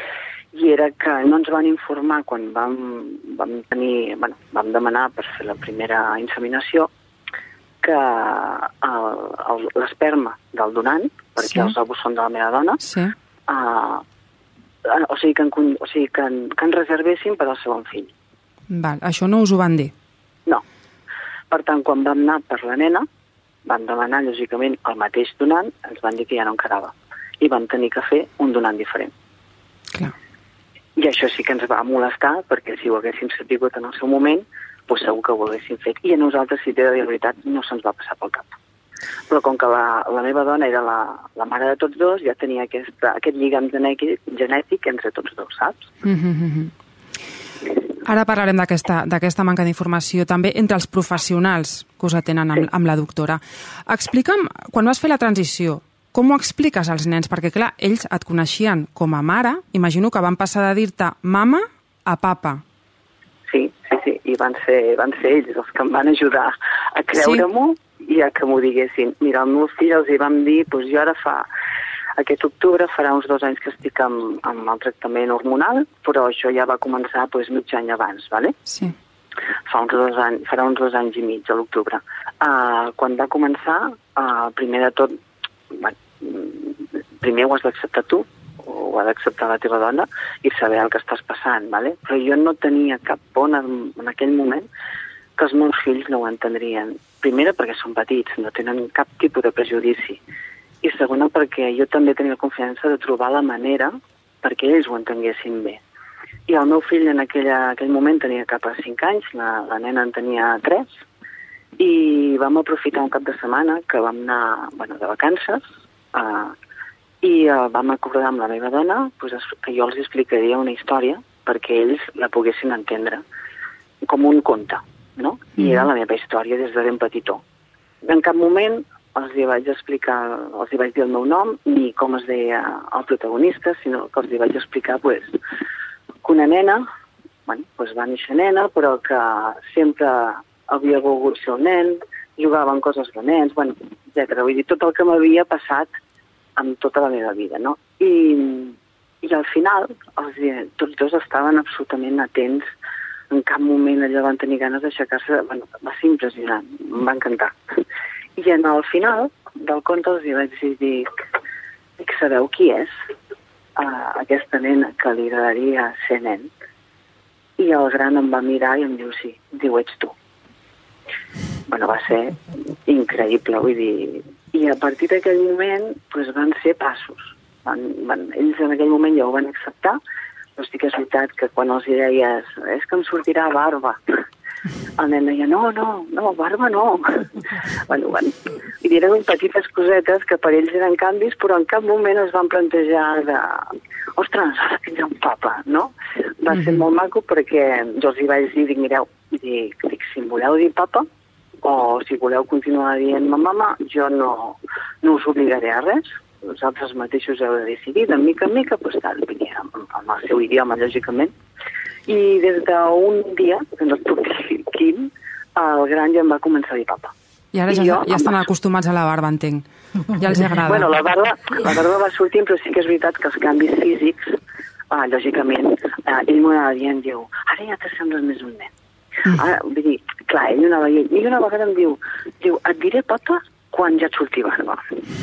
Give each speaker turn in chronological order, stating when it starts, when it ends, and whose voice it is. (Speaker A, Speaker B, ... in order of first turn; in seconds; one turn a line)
Speaker A: 0.5-6.9
Speaker A: 7.8-12.8
Speaker B: 11.4-11.7
Speaker B: 12.8-13.1
Speaker A: 13.5-14.0
Speaker A: 14.8-18.1
Speaker B: 18.7-19.9
Speaker A: 21.5-23.1
Speaker A: 23.6-29.1
Speaker A: 30.9-38.5
Speaker A: 39.3-45.9
Speaker B: 46.0-46.7
Speaker B: 48.0-62.6
Speaker A: 63.5-71.5
Speaker B: 67.2-67.4
Speaker A: 72.2-78.5
Speaker B: 78.7-78.9
Speaker A: 79.7-85.2
Speaker A: 85.7-94.7
Speaker A: 95.4-100.2
Speaker A: 100.8-105.8
Speaker A: 106.5-110.9
Speaker A: 111.8-116.5
Speaker A: 117.2-123.2
Speaker A: 124.0-127.4
Speaker B: 125.6-125.9
Speaker A: 128.0-135.4
Speaker A: 136.2-136.9
Speaker A: 137.5-145.9
Speaker A: 146.6-152.7
Speaker A: 153.3-157.5
Speaker A: 158.4-161.1
Speaker A: 162.0-162.9
Speaker A: 163.8-166.5
Speaker A: 167.6-170.1
Speaker A: 171.7-180.0
Speaker A: 180.6-184.0
Speaker A: 185.0-201.1
Speaker B: 196.5-196.8
Speaker A: 201.6-211.3
Speaker A: 212.1-217.1
Speaker B: 217.5-220.9
Speaker A: 217.7-218.4
Speaker A: 220.6-224.3
Speaker A: 224.9-228.7
Speaker A: 229.3-235.0